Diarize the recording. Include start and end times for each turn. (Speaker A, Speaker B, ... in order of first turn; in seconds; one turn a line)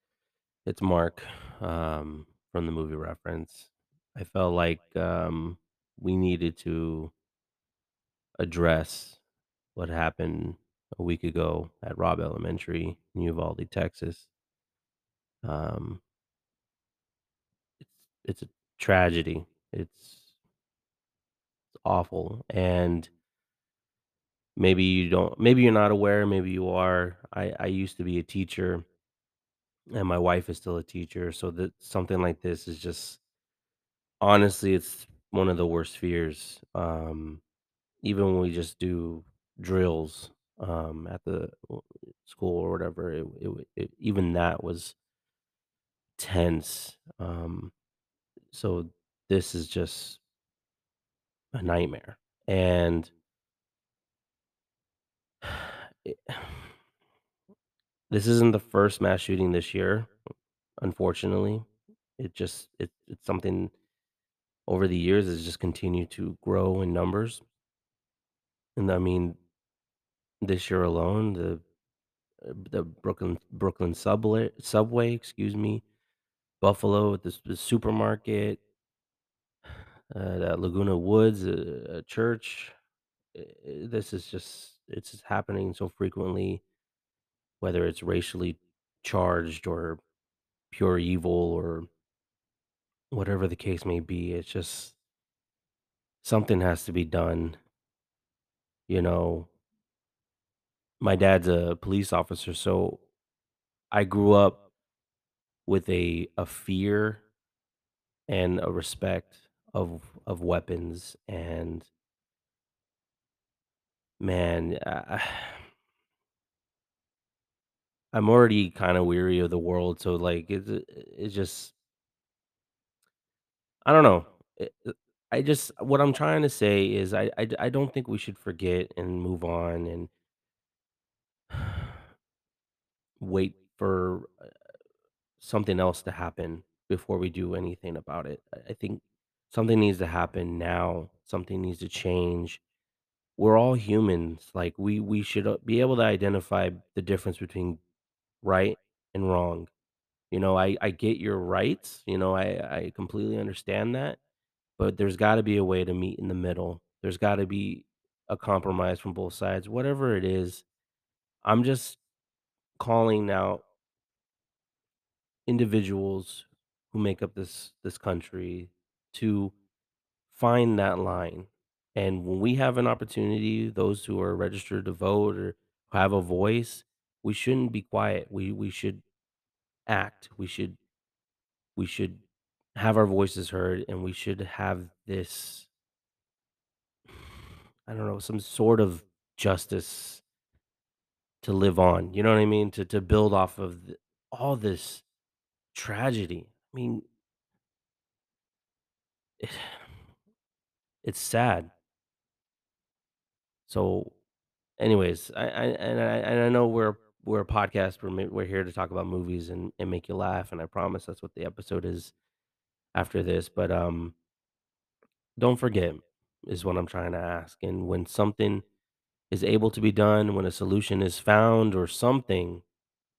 Speaker A: 0.7-7.1
Speaker A: 8.4-9.2
Speaker A: 9.8-14.3
Speaker A: 15.4-16.0
Speaker A: 17.8-20.3
Speaker A: 21.8-23.1
Speaker A: 24.6-28.9
Speaker A: 29.9-33.2
Speaker A: 34.2-37.4
Speaker A: 38.0-45.0
Speaker A: 46.2-47.7
Speaker A: 48.5-50.2
Speaker A: 51.5-53.1
Speaker A: 55.5-56.6
Speaker A: 58.1-60.1
Speaker A: 60.8-61.7
Speaker A: 62.2-63.7
Speaker A: 64.7-67.4
Speaker A: 68.8-69.4
Speaker A: 70.4-71.6
Speaker A: 72.4-75.8
Speaker A: 76.6-78.6
Speaker A: 80.1-82.7
Speaker A: 83.3-86.6
Speaker A: 87.6-90.0
Speaker A: 90.7-91.9
Speaker A: 93.1-95.0
Speaker A: 96.2-97.6
Speaker A: 98.9-99.5
Speaker A: 101.0-103.0
Speaker A: 103.9-104.6
Speaker A: 105.7-107.2
Speaker A: 108.3-111.9
Speaker A: 114.2-115.6
Speaker A: 118.1-121.7
Speaker A: 123.8-130.1
Speaker A: 133.2-134.3
Speaker A: 135.4-142.6
Speaker A: 143.4-147.8
Speaker A: 148.4-149.7
Speaker A: 150.3-154.2
Speaker A: 154.8-160.6
Speaker A: 161.4-162.0
Speaker A: 162.8-163.6
Speaker A: 165.5-169.5
Speaker A: 170.3-179.0
Speaker A: 179.9-180.8
Speaker A: 181.8-182.2
Speaker A: 182.8-185.7
Speaker A: 187.9-190.2
Speaker A: 191.4-195.0
Speaker A: 195.7-197.0
Speaker A: 199.4-199.7
Speaker A: 201.0-201.7
Speaker A: 203.7-204.1
Speaker A: 204.8-212.1
Speaker A: 212.9-214.2
Speaker A: 215.4-218.6
Speaker A: 219.3-222.6